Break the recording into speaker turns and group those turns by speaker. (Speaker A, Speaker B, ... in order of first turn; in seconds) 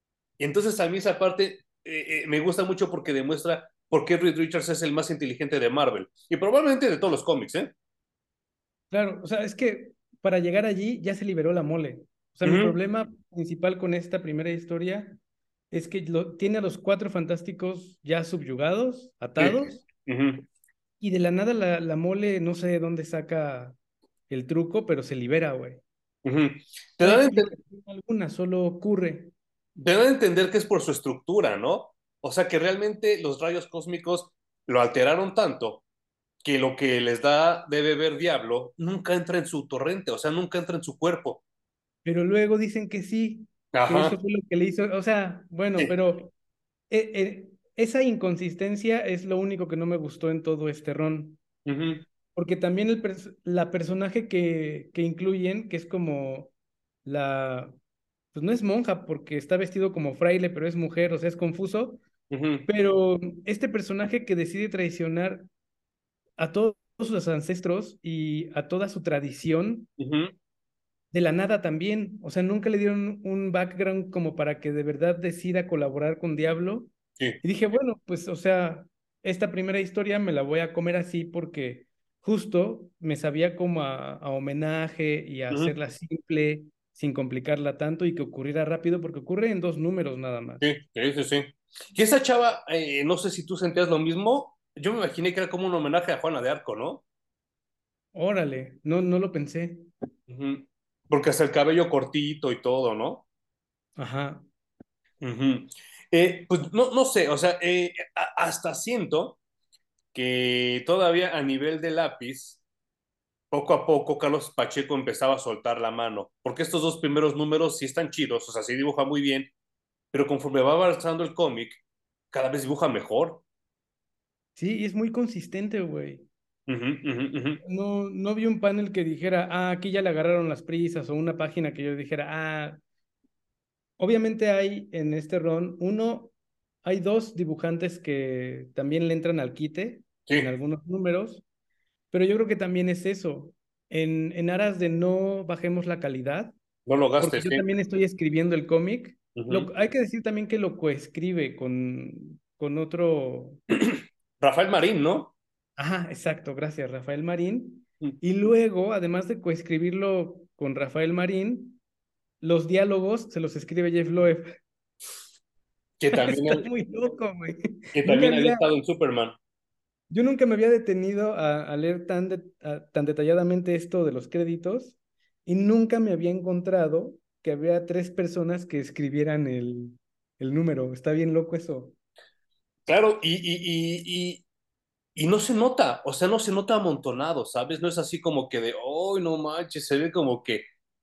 Speaker A: 0.4-7.7, 12.4-12.8, 19.4-20.5, 26.2-27.5, 29.8-35.8, 36.4-41.4, 43.7-44.1, 51.7-52.0, 62.3-62.7, 70.0-70.3, 90.6-97.0, 100.3-103.3, 105.2-109.4, 110.1-112.6, 113.5-119.5, 120.1-123.4, 126.7-127.6, 140.3-140.5, 146.9-147.7, 149.3-149.7, 153.8-155.3, 166.0-166.7, 167.9-169.4, 182.9-184.4, 185.2-190.6
Speaker B: 8.9-15.2, 15.7-19.8, 21.0-23.8, 24.3-25.8, 27.0-29.3, 42.0-46.3, 46.9-51.4, 52.3-56.5, 57.0-57.8, 58.3-62.0, 62.7-65.5, 66.4-69.9, 71.1-90.7, 98.1-99.9, 104.0-104.4, 124.6-126.3, 127.6-132.8, 134.0-136.3, 136.8-141.4, 142.1-146.6, 147.2-153.6, 155.8-161.8, 162.4-164.6, 166.1-168.7, 170.1-181.9